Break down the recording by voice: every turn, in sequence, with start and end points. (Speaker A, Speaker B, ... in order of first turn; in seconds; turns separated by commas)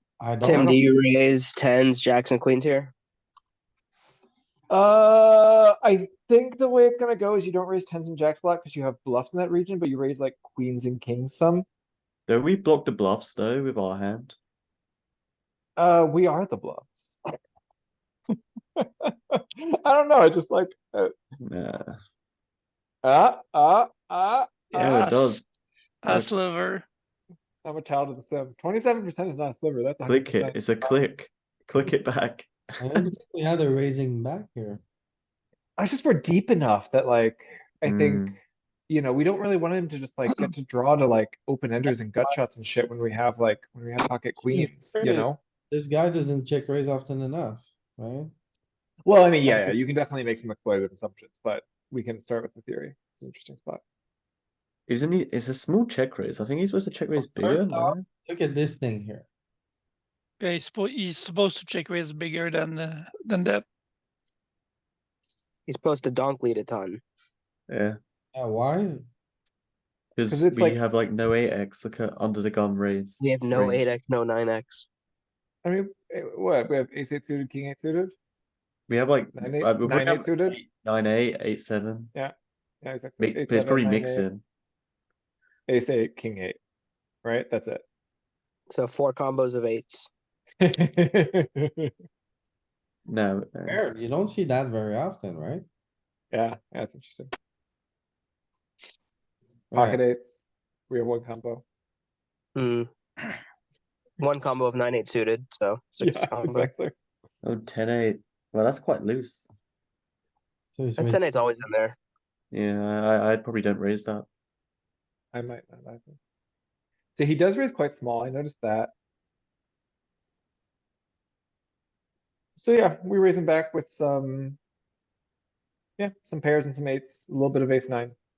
Speaker A: 0.2-0.8, Speaker B: 0.4-2.9, Speaker C: 4.7-11.7, Speaker D: 12.3-14.3, Speaker C: 15.8-17.2, Speaker C: 18.8-21.1, Speaker D: 21.4-21.9, Speaker C: 23.0-25.1, Speaker D: 24.8-25.4, Speaker E: 24.8-25.4, Speaker E: 26.0-26.9, Speaker C: 27.6-31.0, Speaker D: 30.1-33.0, Speaker A: 32.8-34.8, Speaker C: 35.8-45.4, Speaker D: 37.9-38.4, Speaker A: 44.5-48.3, Speaker C: 49.1-53.8, Speaker A: 49.5-49.8, Speaker D: 54.9-58.0, Speaker A: 57.2-59.3, Speaker E: 60.4-63.6, Speaker B: 65.7-67.0, Speaker D: 67.7-68.0, Speaker A: 68.3-69.1, Speaker D: 70.2-73.9, Speaker C: 70.3-70.8, Speaker B: 73.2-74.9, Speaker C: 75.6-78.1, Speaker D: 78.9-82.1, Speaker C: 79.3-80.6, Speaker C: 82.1-84.3, Speaker D: 83.2-84.4, Speaker C: 85.7-86.6, Speaker C: 87.2-87.8, Speaker B: 88.7-90.1, Speaker C: 90.6-91.9, Speaker D: 93.1-93.8, Speaker A: 93.7-95.7, Speaker C: 96.3-97.3, Speaker A: 99.7-100.0, Speaker C: 99.7-101.6, Speaker B: 102.5-102.9, Speaker B: 104.2-106.7, Speaker C: 106.0-107.0, Speaker D: 107.4-109.5, Speaker A: 110.7-111.2, Speaker B: 111.0-112.0, Speaker D: 112.5-114.3, Speaker C: 115.3-116.2, Speaker C: 117.2-118.9, Speaker C: 122.6-124.6, Speaker C: 126.0-128.2